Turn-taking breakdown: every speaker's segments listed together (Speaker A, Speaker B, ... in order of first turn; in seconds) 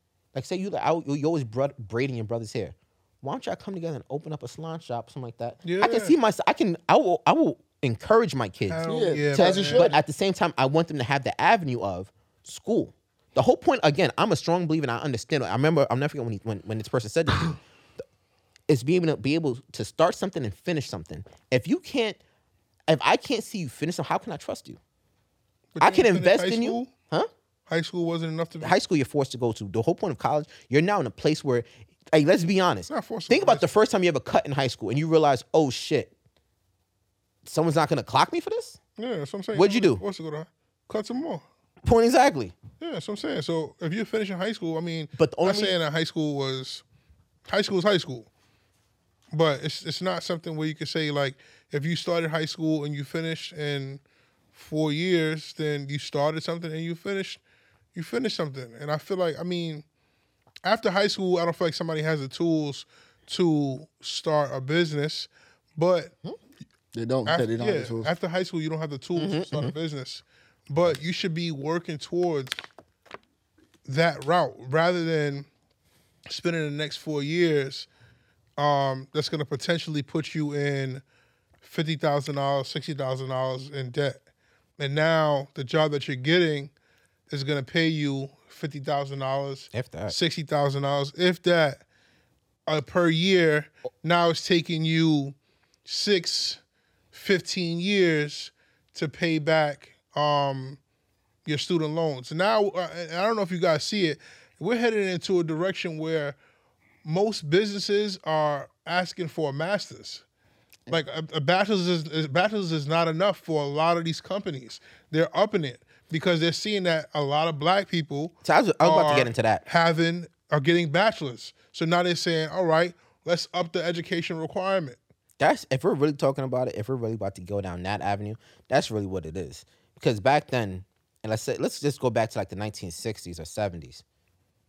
Speaker A: 0.3-17.6, 18.7-22.2, 22.9-24.8, 25.8-27.3, 28.6-36.1, 37.4-38.8, 39.5-40.0, 41.8-42.5, 45.2-45.7, 69.2-69.7, 89.7-90.2, 118.4-119.6, 125.4-134.0
Speaker B: 5.6-6.1, 8.7-10.0, 25.8-26.9, 27.7-28.8, 32.9-33.6, 39.0-41.4, 42.8-46.8, 47.5-48.3, 49.3-54.0, 54.5-57.4, 57.9-59.8, 60.6-66.1, 67.2-72.6, 73.8-75.5, 76.3-77.9, 78.6-81.0, 81.6-84.2, 84.8-86.7, 87.3-91.8, 92.7-96.6, 97.1-100.8, 101.5-106.3, 107.0-110.2, 110.9-125.0
Speaker C: 8.8-10.0, 66.9-68.1